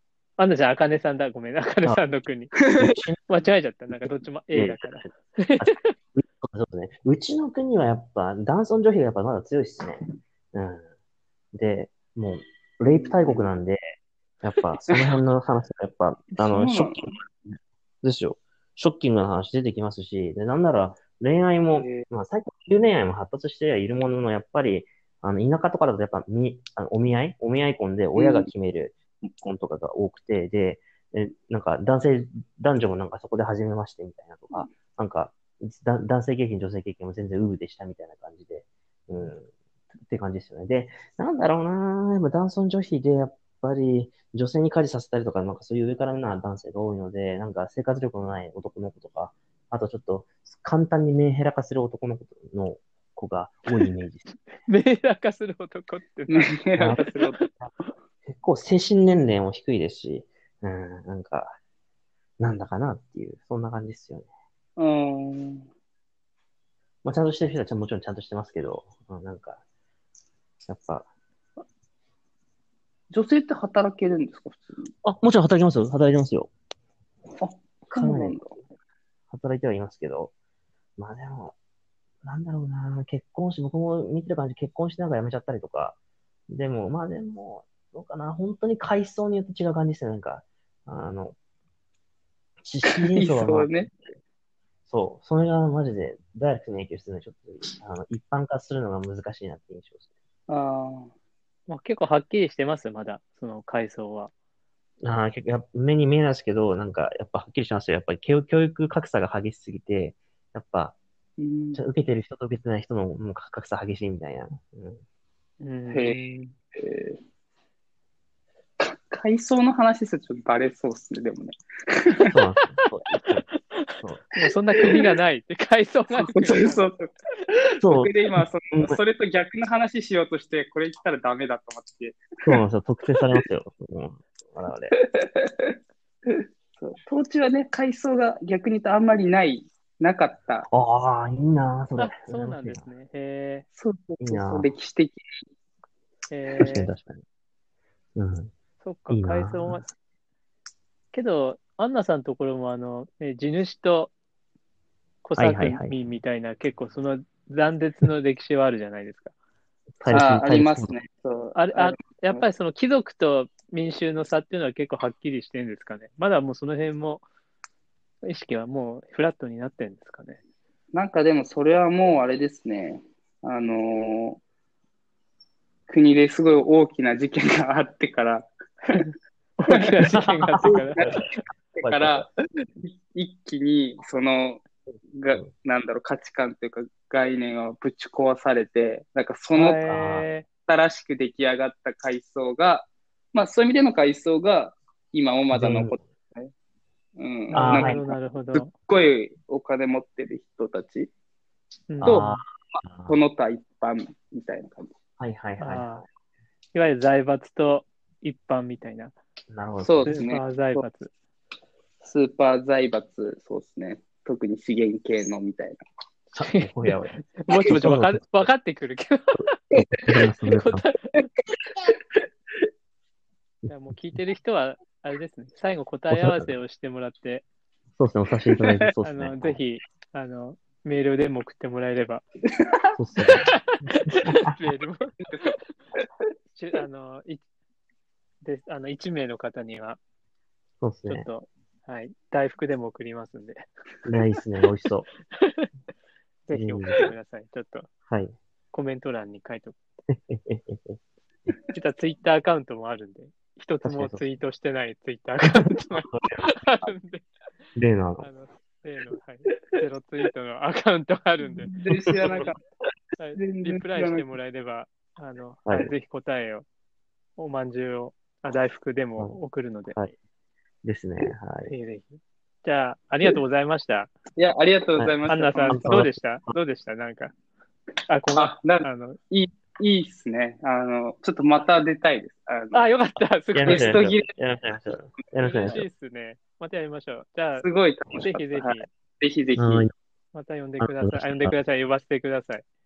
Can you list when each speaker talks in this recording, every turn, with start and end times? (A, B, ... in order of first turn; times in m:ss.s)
0:00.4-0:02.5 A
0:02.8-0:03.2 B
0:03.3-0:05.9 A
0:03.9-0:05.1 B
0:05.6-0:10.9 B
0:11.5-0:13.8 B
0:12.9-0:13.5 C
0:14.4-0:39.5 B
0:16.3-0:17.2 C
0:21.7-0:22.1 C
0:28.2-0:28.5 C
0:40.1-0:54.2 B
0:54.7-0:57.5 A
0:56.3-0:57.4 C
0:56.8-0:57.0 B
0:58.3-1:01.6 B
1:02.4-1:04.3 B
1:04.8-1:05.7 C
1:07.0-1:09.6 B
1:10.7-1:11.1 B
1:13.1-1:14.9 C
1:15.0-1:16.5 B
1:17.4-1:18.6 C
1:17.9-1:18.4 B
1:19.3-1:20.3 B
1:21.0-1:21.6 B
1:22.2-1:26.0 B
1:26.5-1:31.4 B
1:32.6-1:33.9 B
1:32.9-1:33.9 C
1:34.9-1:40.1 B
1:40.5-1:41.1 C
1:41.7-1:44.3 A
1:45.0-1:51.0 B
1:51.4-1:51.8 C
1:51.8-1:55.0 B
1:55.6-1:56.2 A
1:55.9-1:57.2 C
1:58.8-2:02.4 C
2:02.3-2:03.4 B
2:03.3-2:06.9 A
2:04.4-2:05.0 C
2:06.1-2:07.1 C
2:07.7-2:12.6 C
2:07.8-2:09.0 B
2:12.5-2:15.0 B
2:15.0-2:20.7 C
2:20.7-2:22.9 B
2:22.0-2:23.6 A
2:23.8-2:25.2 C
2:24.2-2:24.7 B
2:26.3-2:26.9 A
2:26.6-2:27.2 B
2:28.2-2:28.5 B
2:28.8-2:29.9 A
2:29.1-2:29.8 B
2:31.1-2:34.1 A
2:35.2-2:39.3 A
2:35.4-2:35.9 B
2:40.0-2:40.9 B
2:40.1-2:42.5 C
2:41.6-2:47.2 A
2:48.3-2:50.4 A
2:50.9-2:54.4 C
2:55.9-2:59.0 C
2:59.6-3:01.0 A
2:59.7-3:00.0 C
3:00.1-3:02.3 B
3:00.6-3:01.2 C
3:01.8-3:02.3 C
3:02.8-3:04.6 C
3:05.2-3:09.8 C
3:09.5-3:10.5 A
3:09.8-3:10.3 B
3:10.7-3:16.5 C
3:15.5-3:16.0 B
3:17.2-3:21.1 C
3:17.5-3:18.7 A
3:17.5-3:18.0 B
3:21.9-3:22.4 A
3:22.0-3:23.2 B
3:22.0-3:24.9 C
3:25.2-3:26.0 B
3:25.6-3:26.0 A
3:26.8-3:29.2 A
3:29.5-3:30.2 B
3:29.8-3:30.8 C
3:30.1-3:31.1 A
3:32.0-3:35.8 C
3:36.3-3:39.5 A
3:36.4-3:38.2 B
3:39.8-3:40.9 B
3:40.5-3:41.3 A
3:43.7-3:47.5 A
3:46.1-3:46.6 B
3:48.0-3:49.6 B
3:49.0-3:52.2 A
3:53.0-3:54.6 B
3:54.1-3:55.6 A
3:56.6-3:57.4 A
3:58.4-4:00.0 A
4:00.8-4:01.3 B
4:01.1-4:03.6 A
4:04.0-4:05.1 B
4:05.4-4:05.7 A
4:06.5-4:07.9 A
4:06.5-4:07.1 B
4:08.1-4:08.3 B
4:08.7-4:09.8 A
4:10.1-4:11.0 B
4:11.7-4:17.3 A
4:13.8-4:14.2 B
4:16.0-4:16.9 B
4:17.8-4:18.3 B
4:18.2-4:22.5 A
4:21.6-4:22.6 C
4:22.1-4:22.5 B
4:23.2-4:26.7 A
4:23.4-4:24.3 C
4:25.7-4:25.9 B
4:27.4-4:30.0 A
4:30.8-4:31.7 B
4:31.7-4:34.1 A
4:34.4-4:36.0 C
4:35.3-4:37.3 A
4:35.7-4:36.5 B
4:38.1-4:39.2 A
4:38.3-4:42.9 C
4:42.7-4:44.1 A
4:43.5-4:45.9 B
4:43.6-4:44.3 C
4:45.4-4:48.9 A
4:47.6-4:49.9 C
4:49.6-4:49.9 B
4:50.3-4:52.6 A
4:50.8-4:51.6 B